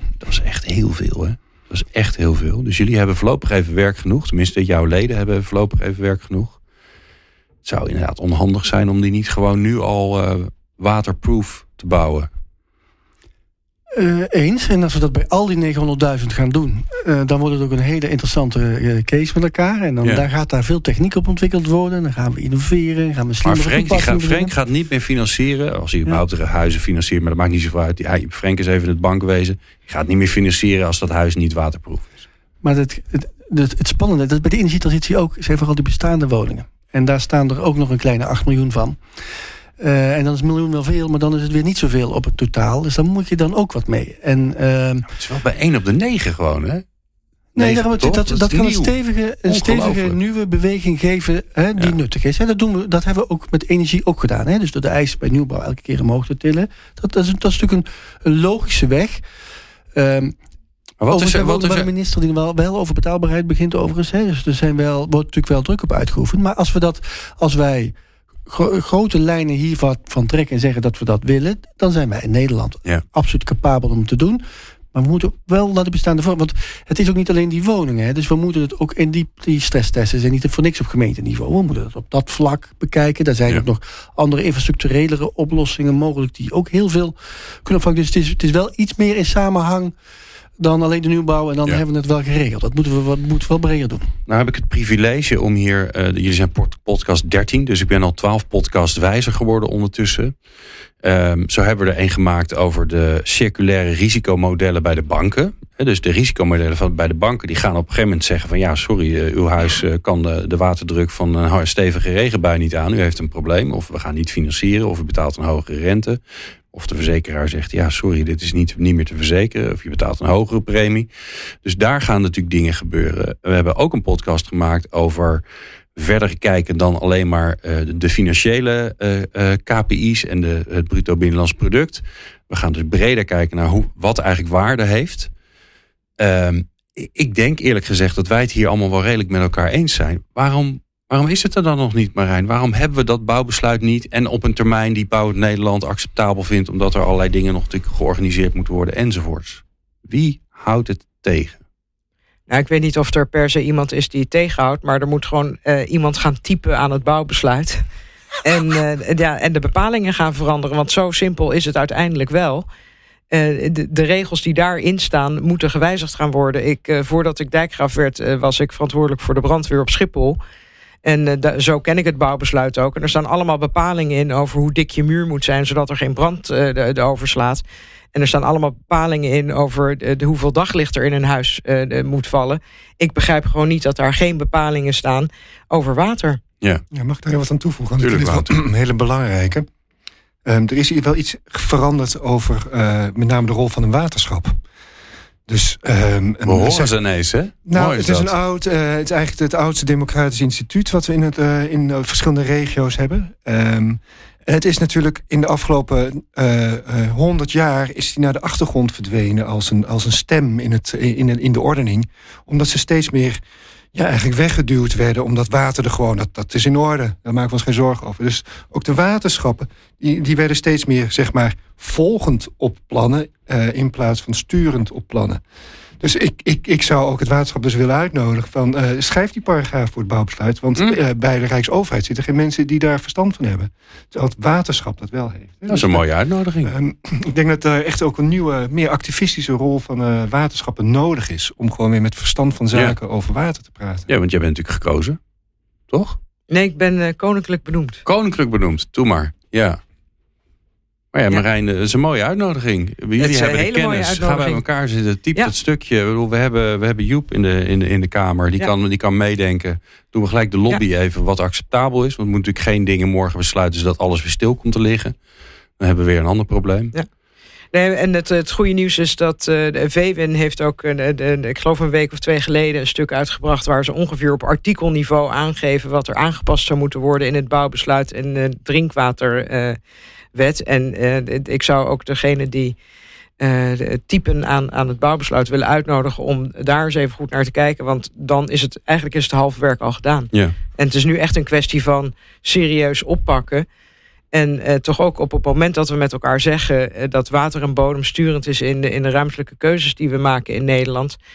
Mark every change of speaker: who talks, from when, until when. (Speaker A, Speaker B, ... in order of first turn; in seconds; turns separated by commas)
Speaker A: 0.2-6.6, Speaker A: 7.6-12.3, Speaker B: 13.9-24.5, Speaker A: 23.4-32.2, Speaker B: 32.6-39.0, Speaker B: 39.8-45.1, Speaker A: 45.1-46.8, Speaker B: 47.5-59.2, Speaker A: 47.6-48.9, Speaker A: 49.5-50.2, Speaker B: 60.0-60.4, Speaker A: 61.0-61.9, Speaker B: 61.1-67.9, Speaker B: 68.5-74.4, Speaker B: 74.9-89.9, Speaker B: 90.6-94.1, Speaker A: 94.3-100.3, Speaker A: 101.0-116.2, Speaker A: 116.7-121.1, Speaker A: 121.6-125.4, Speaker A: 126.0-135.3, Speaker A: 136.2-151.6, Speaker C: 152.5-157.8, Speaker C: 158.4-162.7, Speaker C: 163.3-170.4, Speaker C: 171.1-177.6, Speaker C: 178.1-186.4, Speaker D: 186.9-189.7, Speaker A: 188.0-188.6, Speaker D: 190.5-194.6, Speaker D: 195.5-196.9, Speaker A: 196.5-198.3, Speaker D: 197.7-213.4, Speaker D: 213.9-225.4, Speaker D: 226.0-236.1, Speaker A: 235.7-236.7, Speaker D: 236.6-244.1, Speaker A: 244.1-245.2, Speaker A: 245.9-246.2, Speaker C: 246.5-248.0, Speaker A: 248.1-249.8, Speaker A: 251.1-265.2, Speaker C: 253.2-254.6, Speaker A: 265.8-266.9, Speaker C: 267.7-279.8, Speaker C: 280.3-282.8, Speaker C: 283.4-293.7, Speaker C: 294.3-301.2